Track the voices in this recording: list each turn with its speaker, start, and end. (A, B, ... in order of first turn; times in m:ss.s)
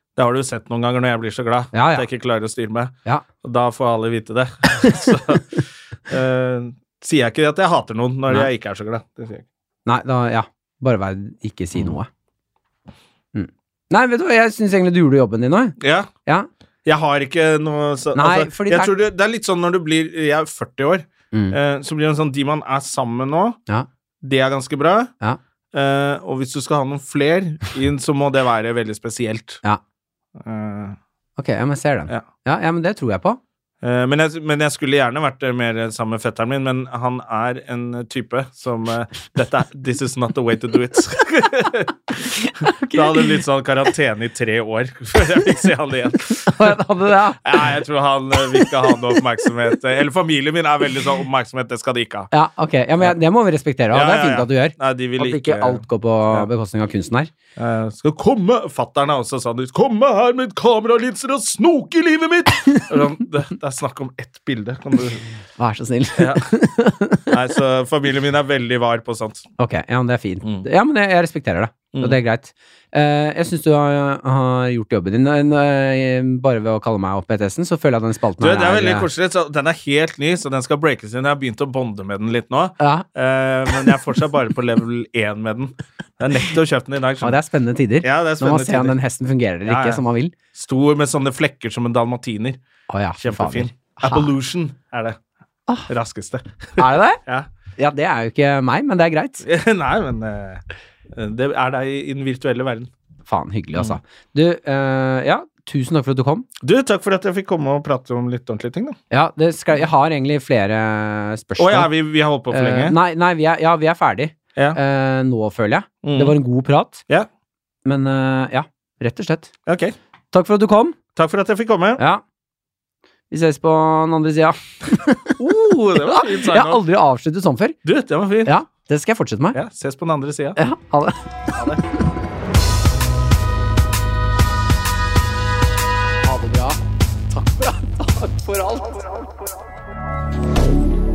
0:00.2-0:09.5 A
0:01.7-0:02.1 B
0:09.9-0:12.1 B
0:13.3-0:16.5 B
0:15.8-0:16.1 A
0:16.8-0:23.6 A
0:18.2-0:18.9 B
0:24.2-0:25.1 A
0:25.7-0:29.6 A
0:30.4-0:31.0 A
0:31.4-0:33.4 B
0:33.8-0:46.8 A
0:42.5-0:43.4 B
0:46.4-0:47.7 B
0:47.4-0:52.3 A
0:48.6-0:49.0 B
0:52.3-0:57.3 B
0:53.9-0:56.5 A
0:57.6-1:05.2 A
1:05.6-1:07.3 B
1:06.2-1:06.5 A
1:07.3-1:09.5 A
1:09.6-1:19.1 B
1:11.9-1:12.2 A
1:18.4-1:27.4 A
1:22.8-1:23.0 B
1:27.2-1:30.3 B
1:28.0-1:29.0 A
1:29.6-1:30.0 A
1:30.5-1:32.6 A
1:32.9-1:34.3 B
1:33.2-1:35.2 A
1:35.9-1:37.5 A
1:36.8-1:37.2 B
1:37.8-1:39.5 B
1:39.4-1:42.9 A
1:43.3-1:46.5 B
1:46.6-1:49.0 A
1:49.1-1:51.9 B
1:51.6-1:53.0 A
1:52.5-1:57.0 B
1:56.0-1:56.4 A
1:57.8-1:59.5 B
1:59.7-2:00.0 A
2:00.3-2:01.0 B
2:01.2-2:02.0 A
2:02.0-2:02.2 B
2:03.3-2:05.4 B
2:05.4-2:06.8 A
2:06.0-2:07.8 B
2:07.8-2:08.6 A
2:08.4-2:09.6 B
2:09.6-2:10.6 A
2:10.6-2:11.8 B
2:16.2-2:16.8 B
2:17.3-2:19.6 B